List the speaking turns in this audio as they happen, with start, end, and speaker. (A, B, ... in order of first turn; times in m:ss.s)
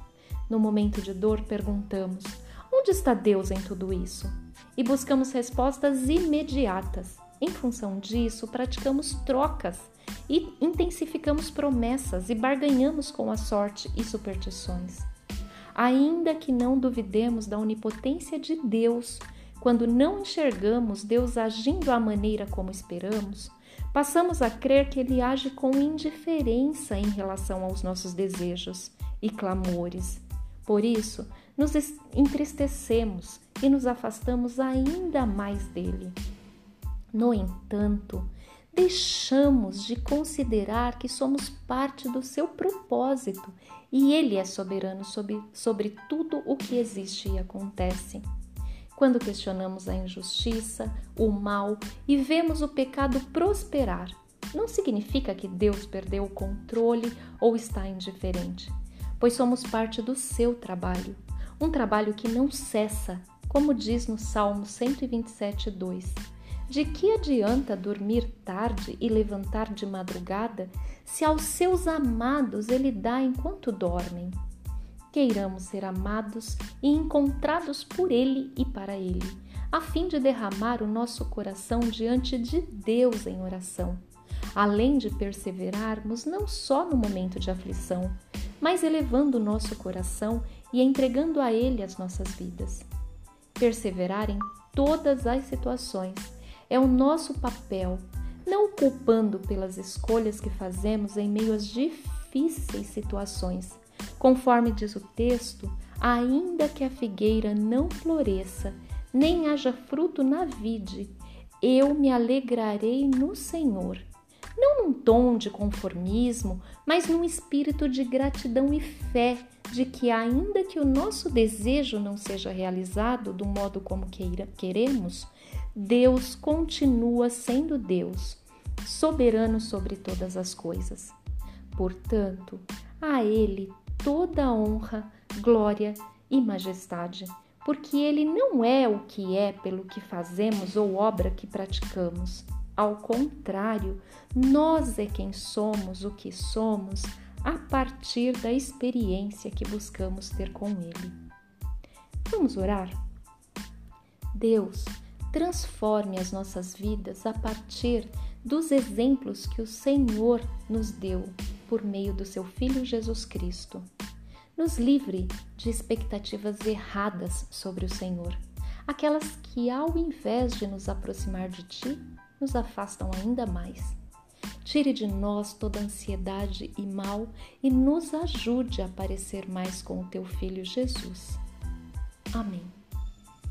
0:00.5-0:15.1 A
0:15.7-0:36.2 A
0:37.1-0:48.2 A
0:48.9-1:14.4 A
1:15.1-1:24.0 A
1:24.5-1:32.9 A
1:33.6-2:11.2 A
2:11.7-2:31.2 A
2:32.2-2:33.0 A
2:34.3-2:43.9 A
2:44.6-2:54.0 A
2:54.6-3:01.4 A
3:02.3-3:02.7 A